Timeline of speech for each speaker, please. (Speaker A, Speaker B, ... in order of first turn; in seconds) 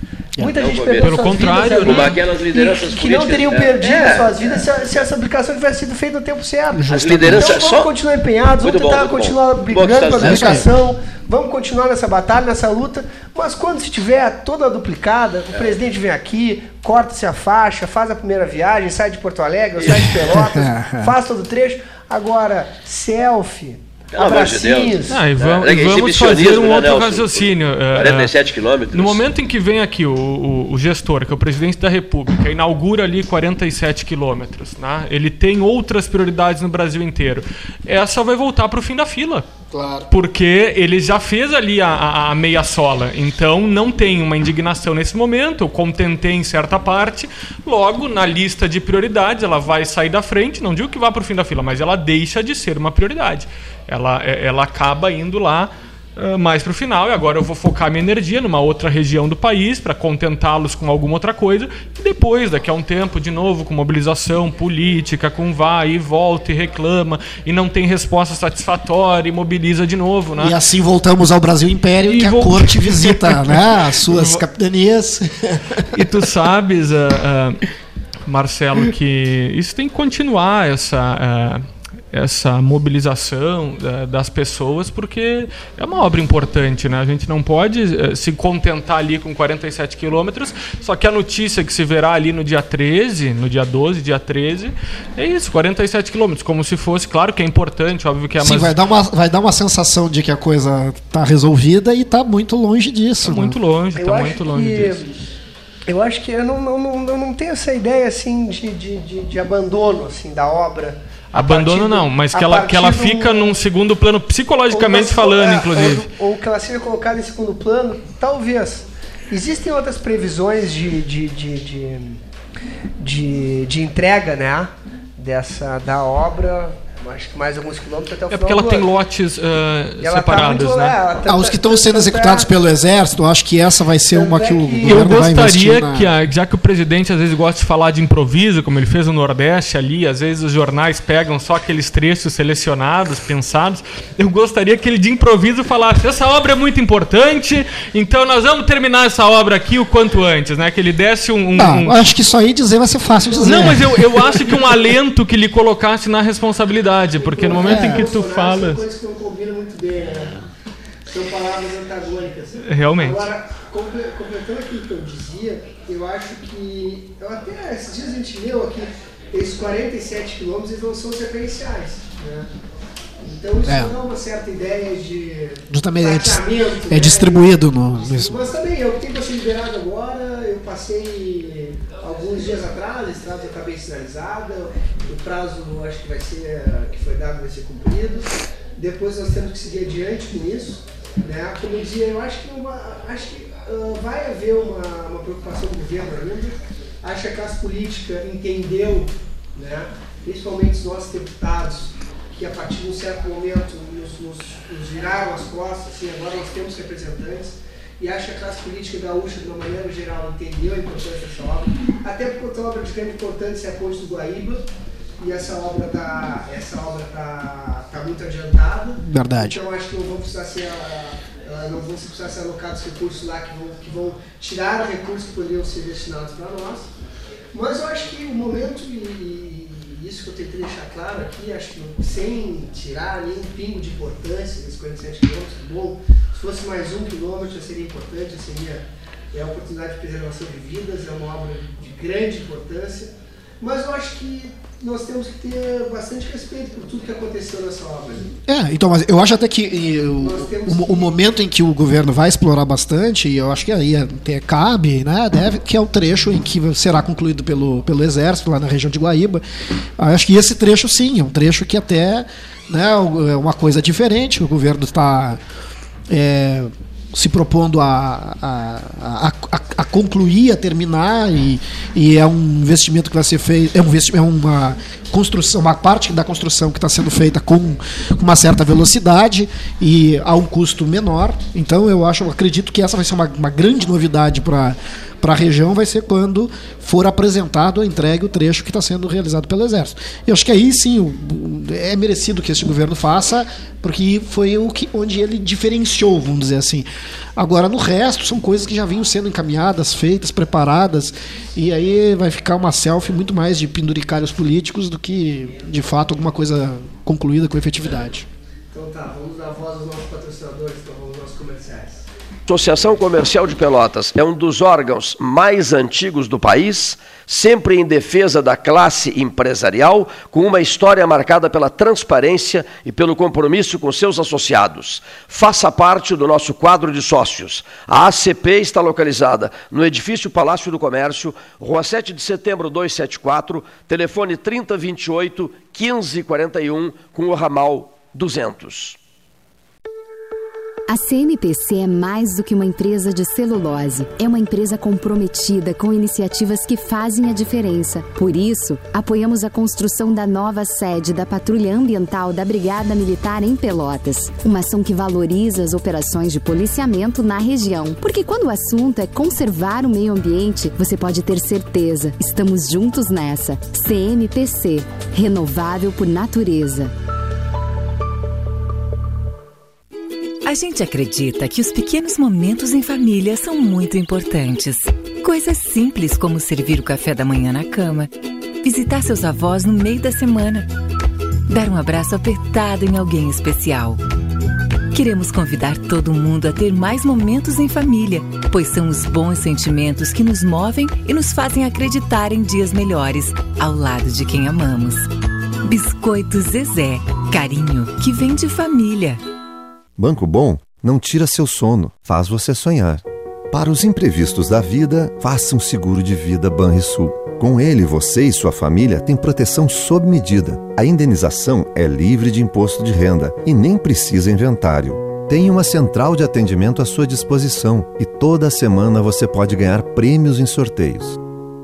Speaker A: 0.4-25.2, 103.9-105.1, 105.9-113.5, 114.7-122.2, 123.0-128.8, 130.0-132.5, 134.1-135.1, 153.4-153.8, 157.2-160.4, 161.1-172.5, 173.2-214.7, 215.2-226.9, 227.5-248.3, 250.2-251.1, 308.7-312.1
Speaker B: 0.5-5.1, 6.9-7.9, 8.6-10.7, 15.5-15.8, 19.8-20.0, 24.1-29.2, 312.5-339.0
Speaker C: 1.0-2.2, 25.1-28.3, 28.9-39.5, 40.1-70.6, 72.0-74.4, 75.9-77.7, 78.3-98.7, 103.2-105.0, 111.3-116.1, 128.3-131.0, 134.8-152.0, 153.4-158.8, 162.7-163.2
Speaker D: 6.7-7.5, 10.2-10.7, 20.0-21.1, 39.7-40.1, 70.4-75.9, 98.4-103.6, 131.2-136.1, 151.6-154.2, 157.6-158.1, 173.7-173.9, 175.7-178.5, 219.0-219.6, 248.4-259.4, 260.0-265.4, 266.1-308.3
Speaker E: 340.9-366.9
Speaker F: 370.4-380.7, 381.5-384.0, 384.9-395.1, 395.6-399.2
Speaker G: 400.0-421.2